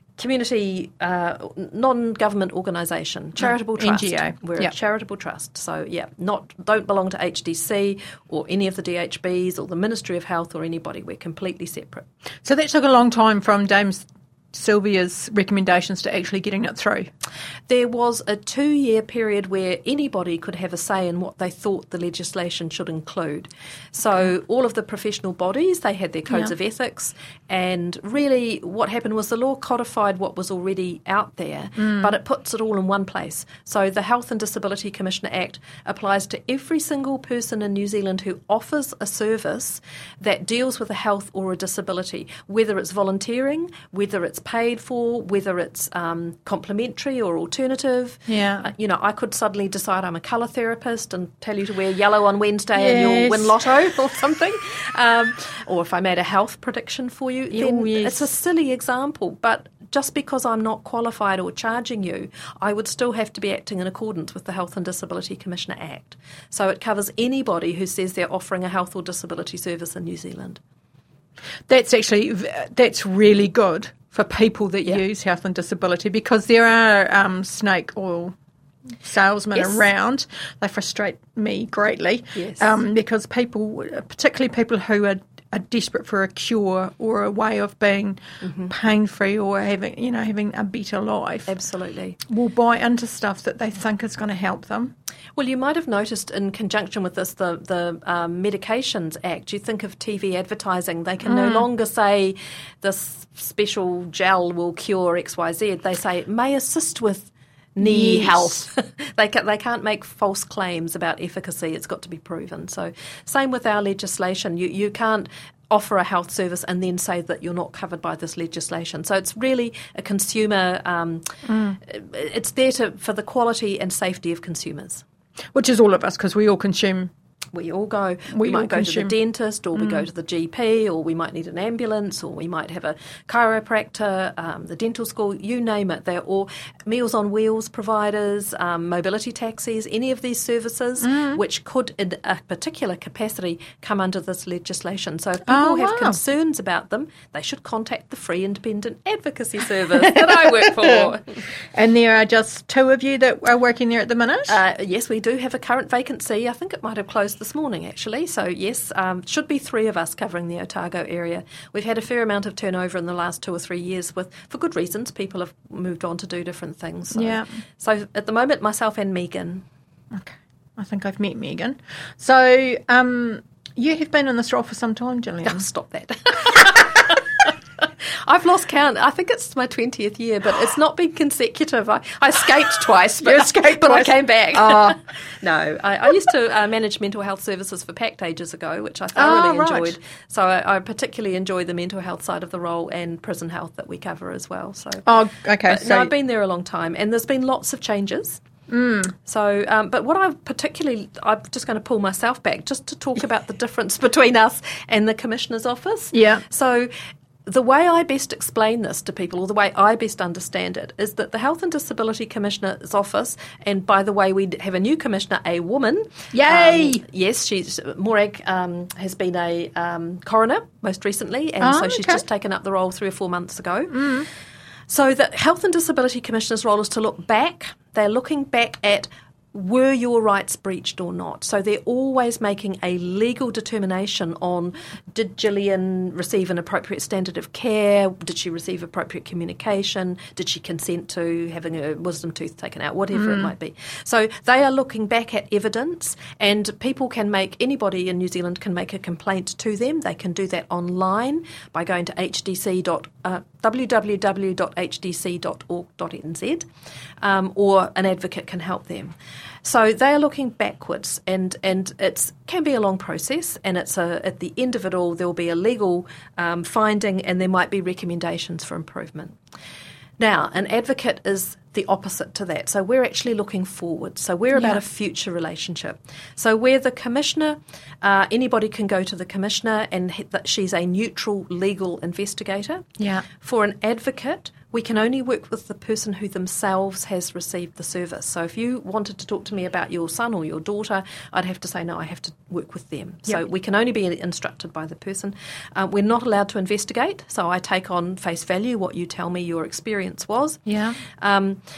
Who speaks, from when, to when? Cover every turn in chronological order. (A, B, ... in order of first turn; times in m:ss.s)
0:00.2-0:12.1 A
0:03.4-0:04.7 B
0:12.4-0:17.1 B
0:17.7-1:10.6 A
0:31.8-0:32.1 B
0:48.3-0:48.7 B
0:52.8-0:53.7 B
0:57.5-0:58.2 B
1:11.7-1:18.3 B
1:19.0-1:31.5 B
1:19.6-1:19.8 A
1:22.3-1:22.8 A
1:28.4-1:28.7 A
1:31.5-1:32.2 A
1:32.3-1:34.9 B
1:35.4-2:01.3 A
1:41.2-1:41.7 B
1:47.8-1:48.7 B
2:01.5-2:01.8 B
2:01.8-2:05.0 A
2:05.5-2:07.1 B
2:07.5-2:31.4 A
2:08.3-2:09.1 B
2:09.8-2:10.0 B
2:21.0-2:21.4 B
2:25.5-2:26.2 B
2:30.1-2:31.1 B
2:31.7-2:34.6 B
2:34.5-2:49.6 A
2:47.2-2:47.5 B
2:50.1-2:55.7 B
2:55.4-3:15.0 A
3:03.2-3:05.0 B
3:09.2-3:10.0 B
3:15.0-3:16.1 B
3:15.6-3:18.4 A
3:18.7-3:19.2 B
3:19.3-3:26.9 A
3:26.1-3:26.4 B
3:27.5-3:44.1 A
3:36.3-3:37.0 B
3:41.6-3:42.2 B
3:43.9-3:44.3 B
3:44.9-4:16.6 A
4:03.1-4:03.5 B
4:17.2-4:29.4 A
4:30.2-5:01.6 A
4:34.5-4:34.8 B
4:43.0-4:43.2 B
5:00.6-5:01.0 B